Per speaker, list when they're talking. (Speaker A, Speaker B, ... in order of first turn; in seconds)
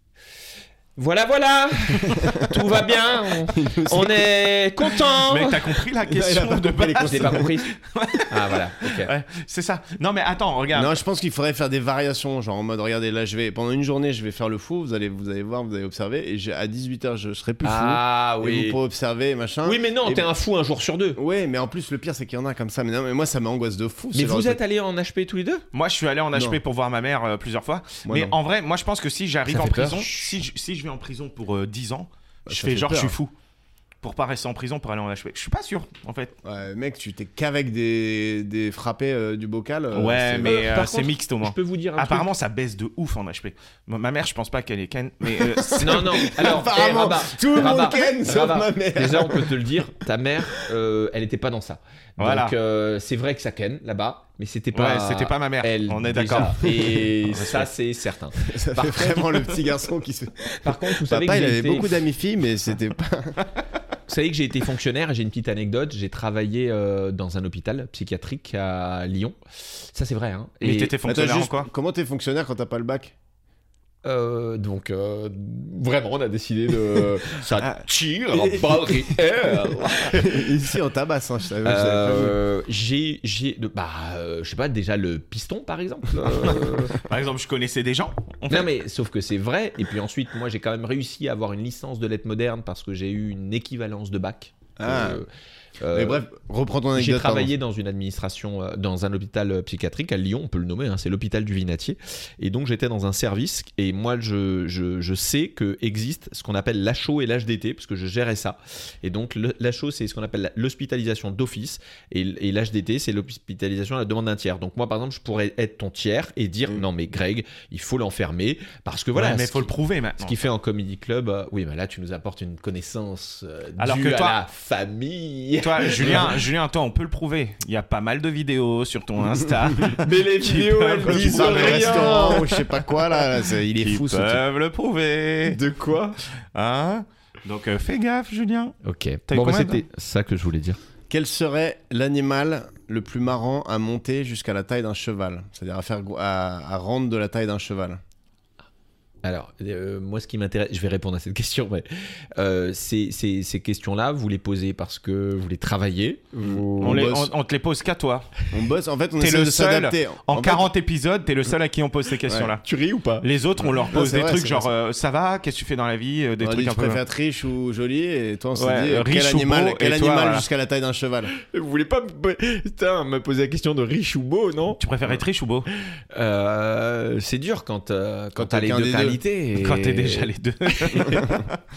Speaker A: 1.0-5.7, 7.0-7.7, 8.3-9.1, 17.6-18.8, 19.6-21.2, 24.1-25.6, 29.5-30.3, 40.4-42.3, 45.8-59.5, 60.6-61.9, 64.1-69.4, 69.9-71.0, 74.0-80.5, 81.7-87.0, 88.5-95.3, 95.8-96.2, 97.0-126.4, 130.0-132.4, 135.5-136.2, 138.8-140.8, 149.2-157.1, 162.6-163.3, 171.4-174.8, 176.1-181.3
Speaker B: 3.5-4.3, 6.1-7.5, 10.7-20.3, 21.2-24.6, 26.3-26.6, 28.1-28.4, 32.5-33.1, 36.4-40.6, 45.3-49.6, 58.4-63.4, 71.0-73.1, 77.5-82.4, 94.8-95.2, 95.9-97.5, 131.0-134.4, 141.1-148.0, 156.4-157.3, 158.5-160.7, 162.3-162.5, 163.7-164.7, 166.4-171.3, 178.4-179.2
Speaker C: 5.1-10.9, 25.7-33.3, 34.0-36.3, 39.9-46.3, 52.2-52.5, 54.7-57.7, 70.6-71.7, 86.4-88.7, 119.2-120.4, 123.8-124.4, 125.6-132.7, 133.8-135.6, 136.5-138.8, 139.3-139.8, 156.8-158.3, 159.2-162.6, 163.2-167.0, 168.6-170.4, 174.8-175.7, 179.6-181.6